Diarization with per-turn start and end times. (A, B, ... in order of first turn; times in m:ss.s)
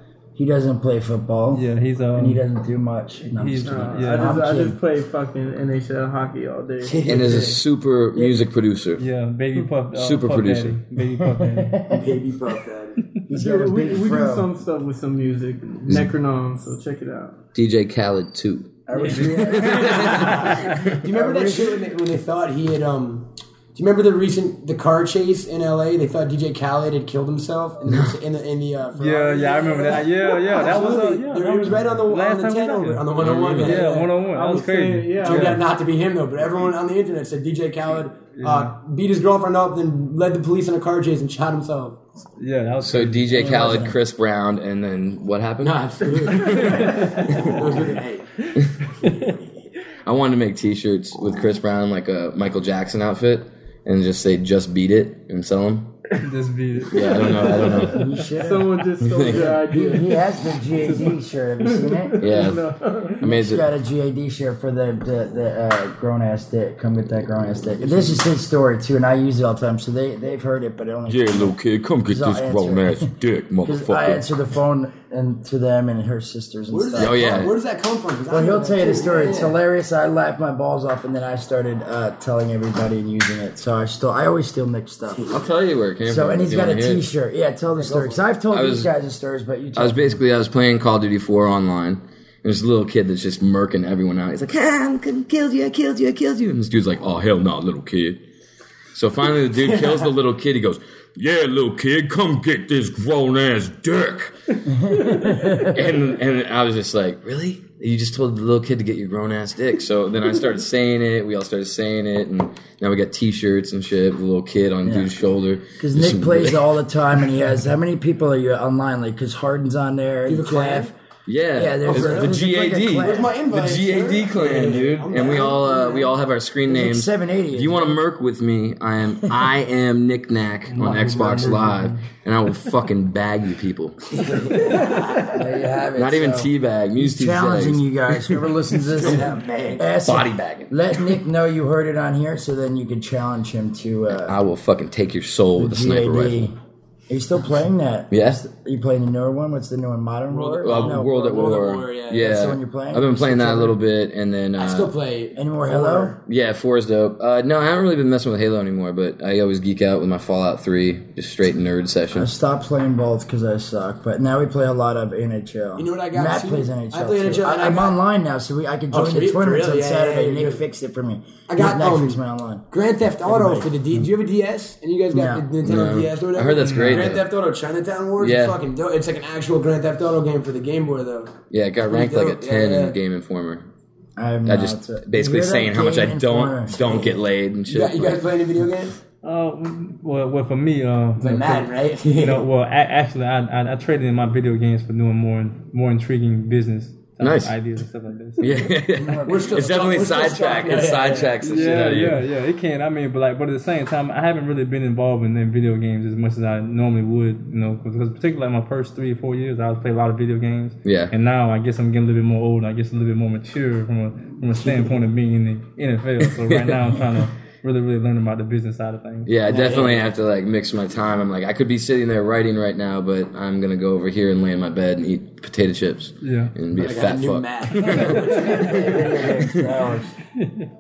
0:00.4-0:04.8 A
0:01.5-0:02.4 B
0:03.3-0:04.5 B
0:03.6-0:07.0 C
0:06.8-0:07.6 D
0:07.0-0:09.0 E
0:09.0-0:11.8 B
0:10.0-0:10.8 E
0:11.1-0:12.2 A
0:11.9-0:13.2 D
0:13.3-0:14.5 A
0:13.3-0:17.4 C
0:17.5-0:21.0 E
0:18.9-0:20.2 A
0:18.9-0:34.2 D
0:19.0-0:19.6 B
0:20.2-0:20.8 B
0:21.0-0:21.9 A
0:27.9-0:28.1 E
0:29.0-0:35.6 B
0:29.6-0:30.6 C
0:33.2-0:33.8 E
0:34.2-0:35.6 C
0:35.2-0:42.0 D
0:38.4-0:38.7 B
0:42.4-0:43.9 B
0:42.8-0:47.6 E
0:43.3-0:44.0 A
0:45.6-0:48.4 D
0:49.0-0:49.5 D
0:50.0-0:55.9 E
0:56.2-0:57.8 B
0:56.9-0:58.1 E
0:57.8-1:02.4 A
0:58.3-1:03.2 C
0:59.0-0:59.6 E
1:02.2-1:02.6 E
1:03.2-1:03.7 E
1:03.2-1:13.1 A
1:07.8-1:08.2 D
1:11.1-1:14.3 E
1:13.6-1:17.4 A
1:16.7-1:19.6 D
1:17.0-1:17.5 E
1:18.3-1:25.2 A
1:25.1-1:25.5 D
1:25.3-1:27.1 E
1:26.0-1:30.2 A
1:27.8-1:28.2 D
1:28.5-1:28.9 E
1:29.8-1:38.2 E
1:38.9-1:44.3 E
1:39.7-1:40.0 D
1:44.7-1:45.8 A
1:44.9-1:56.6 E
1:54.8-1:55.1 A
1:55.8-2:00.9 A
2:00.3-2:00.9 D
2:01.3-2:14.2 E
2:01.5-2:03.3 A
2:01.9-2:02.4 D
2:03.0-2:06.2 D
2:06.7-2:08.0 A
2:10.7-2:12.0 B
2:14.1-2:15.4 D
2:15.3-2:24.4 A
2:16.0-2:17.8 E
2:18.8-2:19.9 D
2:20.0-2:20.7 E
2:24.2-2:26.5 E
2:25.6-2:26.6 A
2:27.1-2:31.6 A
2:28.1-2:28.4 E
2:30.3-2:32.4 D
2:30.6-2:34.9 E
2:32.2-2:33.8 A
2:34.6-2:36.2 D
2:35.4-2:36.1 A
2:36.3-2:42.3 E
2:42.1-2:52.7 A
2:45.8-2:48.0 D
2:48.9-2:50.6 D
2:51.5-2:52.2 D
2:52.7-3:01.3 D
2:53.2-2:54.1 A
2:55.1-2:55.5 A
2:55.6-2:57.3 E
2:56.6-2:57.1 B
2:58.2-2:58.6 E
3:01.5-3:03.7 E
3:01.9-3:03.0 D
3:04.2-3:07.1 A
3:04.5-3:08.2 E
3:07.7-3:09.0 D
3:09.2-3:18.5 B
3:11.2-3:12.5 D
3:17.2-3:17.6 E
3:18.4-3:22.2 E
3:19.0-3:20.1 A
3:19.3-3:21.9 D
3:21.4-3:39.3 B
3:30.8-3:31.1 E
3:36.5-3:36.9 E
3:39.3-3:49.6 E
3:39.5-3:40.2 D
3:46.2-3:46.5 B
3:46.7-3:49.5 D
3:47.8-3:50.1 A
3:50.4-3:50.7 B